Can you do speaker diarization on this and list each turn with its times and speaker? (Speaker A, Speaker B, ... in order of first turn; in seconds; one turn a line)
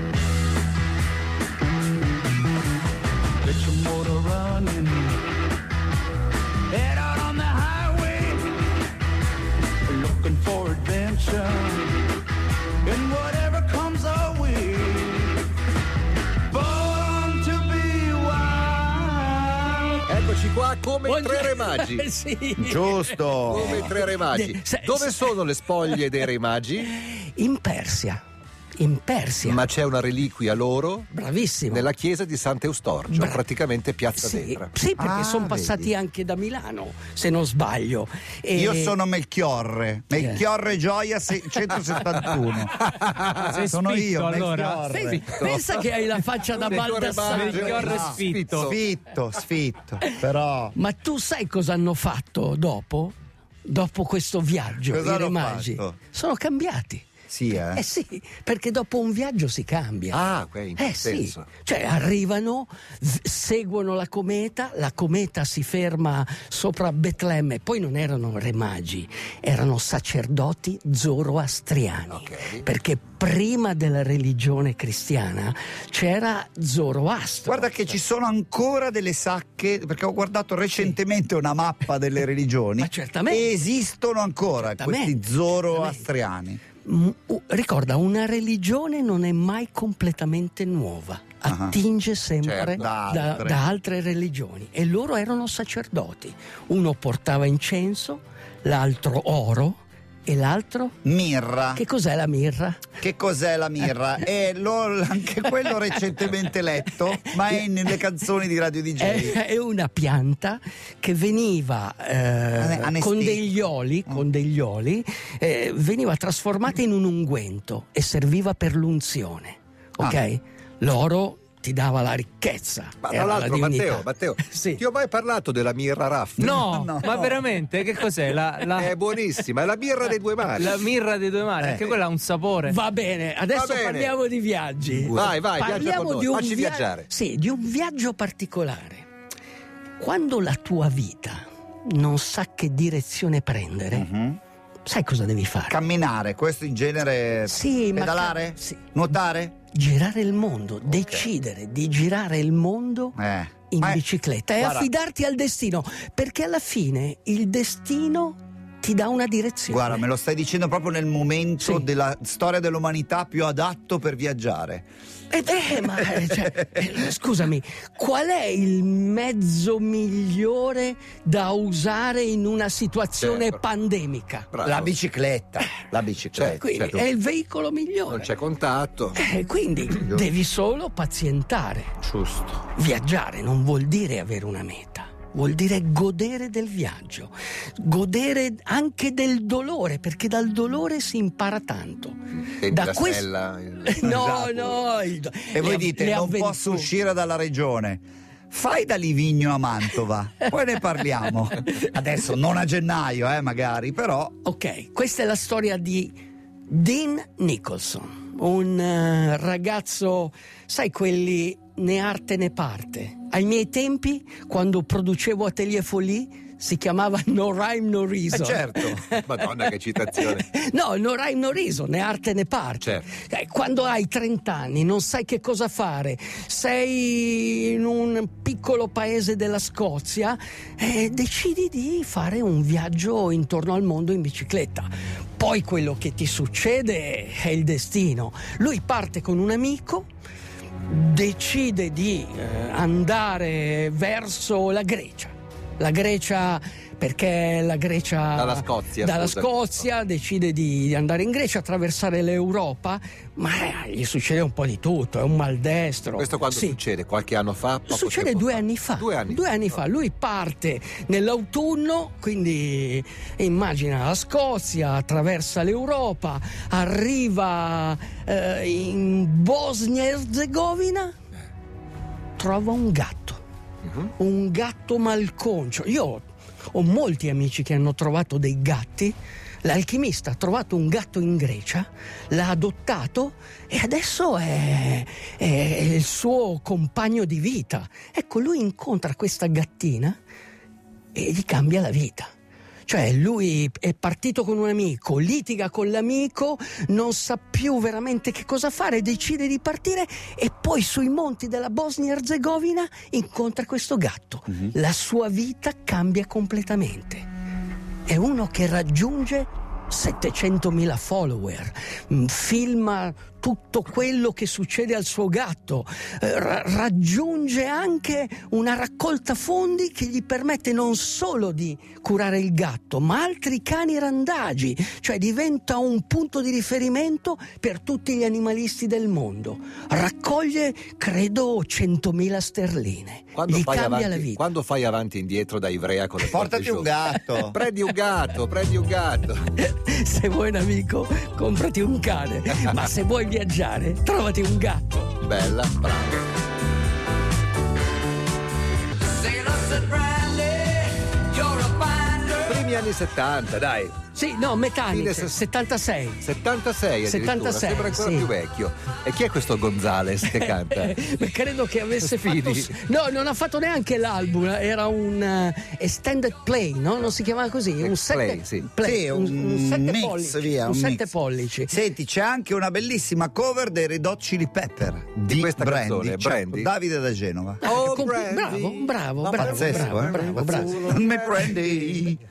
Speaker A: 3.4-5.2
Speaker A: 6.7-8.6
Speaker A: 9.9-12.1
Speaker A: 12.8-15.4
Speaker A: 16.5-19.8
Speaker B: 20.0-22.1
Speaker C: 21.1-26.1
Speaker D: 22.6-23.9
Speaker B: 23.5-27.0
Speaker C: 26.9-28.2
Speaker C: 28.8-29.6
Speaker B: 29.4-31.1
Speaker C: 31.1-31.9
Speaker B: 31.7-34.7
Speaker C: 33.1-33.5
Speaker C: 34.2-39.0
Speaker D: 35.0-35.9
Speaker D: 38.5-42.8
Speaker C: 40.1-40.5
Speaker B: 42.3-43.6
Speaker E: 43.4-44.9
Speaker D: 43.6-45.3
Speaker C: 44.9-48.2
Speaker B: 45.2-45.8
Speaker B: 46.6-48.8
Speaker E: 47.3-48.7
Speaker D: 47.4-50.8
Speaker C: 50.8-57.1
Speaker D: 54.9-56.0
Speaker D: 57.3-57.8
Speaker C: 57.6-60.2
Speaker B: 60.1-61.5
Speaker C: 60.8-77.9
Speaker B: 72.1-72.7
Speaker D: 77.5-86.6
Speaker C: 82.8-83.5
Speaker C: 84.6-86.0
Speaker C: 86.8-101.0
Speaker D: 91.5-91.8
Speaker B: 92.4-92.9
Speaker D: 92.7-93.6
Speaker D: 101.0-101.8
Speaker C: 101.7-102.9
Speaker D: 103.0-109.4
Speaker C: 105.5-106.2
Speaker C: 109.0-124.8
Speaker D: 112.6-113.5
Speaker B: 123.0-126.6
Speaker D: 126.4-127.5
Speaker E: 126.4-128.9
Speaker B: 128.7-130.8
Speaker E: 130.6-132.8
Speaker D: 131.6-131.9
Speaker C: 132.7-139.1
Speaker B: 133.5-134.1
Speaker B: 135.0-137.1
Speaker C: 140.0-144.1
Speaker D: 143.9-144.4
Speaker C: 144.8-145.8
Speaker D: 145.7-149.5
Speaker C: 147.5-153.2
Speaker D: 151.0-151.3
Speaker D: 153.2-154.0
Speaker C: 153.7-160.0
Speaker D: 154.6-154.9
Speaker D: 159.7-164.9
Speaker C: 161.6-161.9
Speaker C: 165.3-174.5
Speaker D: 165.9-166.3
Speaker B: 173.2-173.6
Speaker B: 174.5-174.9
Speaker D: 174.6-176.7
Speaker B: 176.3-177.1
Speaker C: 176.5-178.3
Speaker B: 178.1-179.2
Speaker C: 179.2-182.0
Speaker D: 180.0-180.2
Speaker D: 182.0-182.6
Speaker C: 182.7-193.3
Speaker B: 192.4-194.1
Speaker C: 193.8-196.9
Speaker D: 194.0-194.8
Speaker D: 195.5-204.3
Speaker C: 200.8-201.8
Speaker C: 204.4-206.2
Speaker C: 206.7-219.4
Speaker D: 218.3-219.1
Speaker B: 219.1-220.5
Speaker C: 220.1-240.1
Speaker B: 222.8-223.1
Speaker C: 240.9-256.8
Speaker B: 248.3-249.6
Speaker B: 256.2-259.8
Speaker C: 257.9-271.1
Speaker C: 272.4-273.4
Speaker C: 274.0-290.2
Speaker C: 291.1-292.3
Speaker C: 292.9-307.3
Speaker C: 308.1-334.4
Speaker B: 333.4-336.9
Speaker D: 336.2-337.6
Speaker B: 337.5-339.5
Speaker C: 339.6-345.1
Speaker B: 345.2-346.3
Speaker C: 351.4-352.2
Speaker B: 352.3-354.0
Speaker C: 354.1-356.2
Speaker B: 354.9-355.4
Speaker B: 356.2-361.0
Speaker C: 357.1-358.3
Speaker C: 360.3-371.8
Speaker B: 362.0-362.8
Speaker B: 367.8-368.7
Speaker D: 368.8-371.1
Speaker D: 371.7-377.8
Speaker B: 375.3-376.7
Speaker C: 377.6-381.0
Speaker B: 377.6-382.2
Speaker D: 379.4-382.2